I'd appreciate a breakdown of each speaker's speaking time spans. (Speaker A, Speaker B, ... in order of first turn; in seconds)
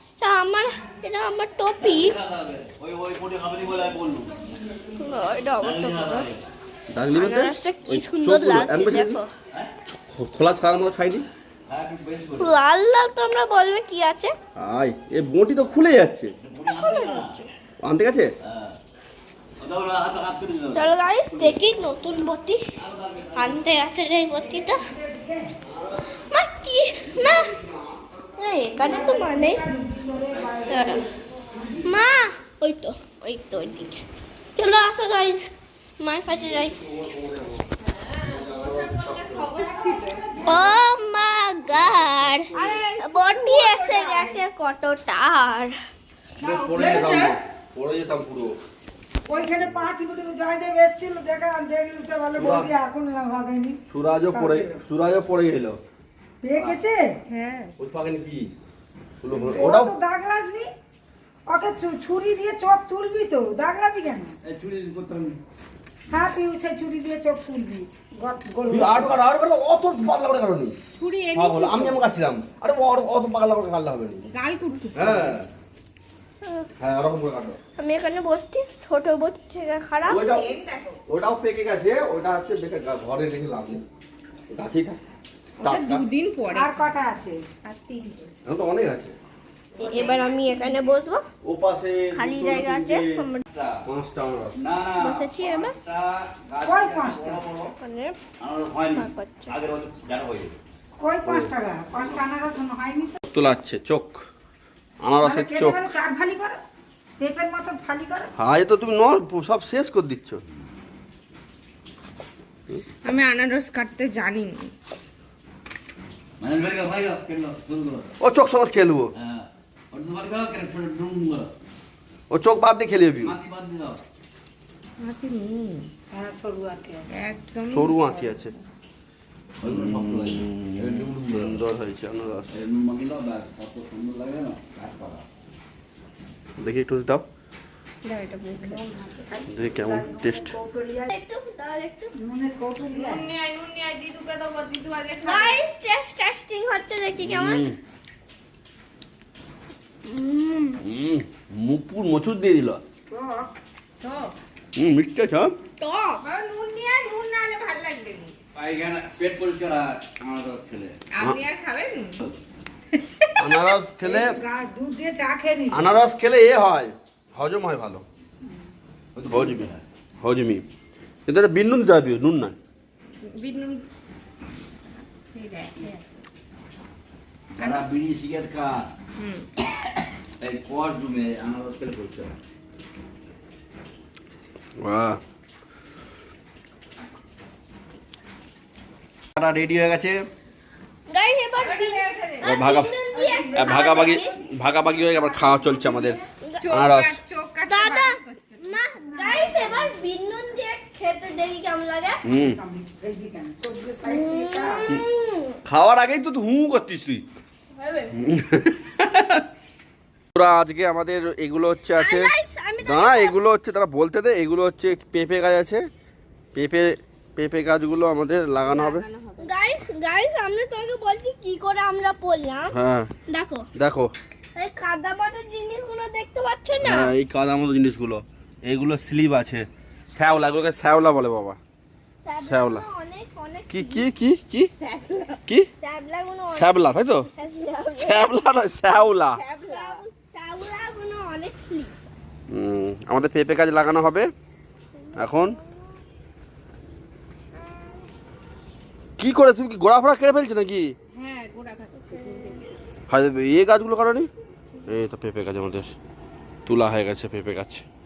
Speaker A: 0.2-2.2, 5.0-6.3, 7.1-9.3, 12.4-14.3, 16.6-17.5, 20.7-22.6, 23.3-24.8, 26.3-27.5, 28.4-29.6, 30.7-31.1, 31.8-34.0, 34.6-36.8, 40.5-45.7, 76.4-76.7, 77.8-80.2, 89.8-91.2, 92.1-93.4, 95.0-95.7, 97.8-98.2, 98.9-99.5, 138.0-138.8, 141.0-142.2, 145.2-147.7, 150.1-150.8, 155.8-156.2, 191.1-194.3, 196.4-196.7, 197.6-202.2, 204.0-205.6, 207.8-208.1, 211.9-213.3, 219.4-222.8, 223.3-223.7, 224.5-227.1, 232.2-234.1, 235.8-238.3, 239.5-241.9, 245.0-245.8, 252.1-252.5
Speaker B: 1.8-4.3, 5.6-6.4, 11.7-12.5, 16.4-17.4, 18.4-18.8, 19.6-20.9, 22.8-23.6, 64.4-65.4, 93.5-93.8, 94.5-97.7, 98.4-100.6, 116.4-118.1, 119.2-121.5, 123.2-124.0, 129.6-131.6, 132.5-135.2, 158.5-160.9, 169.2-169.8, 177.6-178.9, 180.4-182.3
Speaker C: 6.9-9.2, 9.9-11.2, 14.5-16.3, 17.8-18.3, 27.2-27.9, 36.3-37.6, 38.2-39.5, 46.4-48.5, 52.4-52.7, 53.9-55.8, 57.8-58.5, 59.2-59.9, 68.7-70.8, 71.3-74.2, 74.9-75.5, 76.8-77.6, 80.1-80.5, 81.1-83.8, 84.5-85.0, 85.6-86.0, 88.4-89.1, 91.4-93.2, 93.8-94.5, 101.2-101.5, 103.3-104.2, 105.0-105.9, 108.4-110.4, 118.2-119.1, 122.3-123.3, 127.7-128.5, 129.6-132.6, 136.6-137.2, 139.5-140.5, 147.2-147.8, 150.8-152.8, 154.7-155.6, 163.4-164.4, 165.7-168.0, 169.3-169.7, 170.2-170.6, 171.2-172.6, 184.8-185.2, 189.3-190.2, 192.4-192.9, 193.5-197.2, 202.2-202.6, 205.6-207.2, 208.1-209.4, 210.3-215.8, 216.5-219.1, 222.7-223.1, 223.8-224.1, 226.8-231.6, 232.4-232.9, 233.7-234.7, 236.5-237.3, 237.9-239.4, 242.5-244.3, 245.1-245.5, 249.2-250.9, 253.1-254.3, 254.8-255.9, 256.6-257.8
Speaker D: 24.9-25.5, 28.8-31.8, 39.5-40.8, 46.4-47.4, 49.3-53.8, 54.3-54.8, 56.4-57.2, 59.4-60.7, 61.5-64.3, 66.1-69.2, 86.5-87.4, 96.6-97.4, 101.0-103.2, 105.2-106.6, 107.2-108.3, 126.1-127.0, 138.8-141.0, 142.2-143.3, 153.1-153.5, 164.0-165.9, 193.1-193.9, 199.1-199.9, 202.3-204.9
Speaker E: 38.1-40.7, 42.5-44.3, 46.7-47.3, 57.3-57.7, 70.9-72.0, 74.3-75.4, 80.1-81.0, 85.6-86.8, 87.6-88.3, 89.8-90.8, 113.0-114.7, 125.0-125.9, 127.1-128.6, 142.9-145.6, 154.0-154.3, 156.2-158.3, 161.1-162.2, 173.2-173.9, 175.3-176.0, 177.6-177.9, 179.2-179.5, 191.6-192.6, 196.6-198.8, 218.6-219.5, 234.8-235.4, 239.3-240.0, 251.1-252.7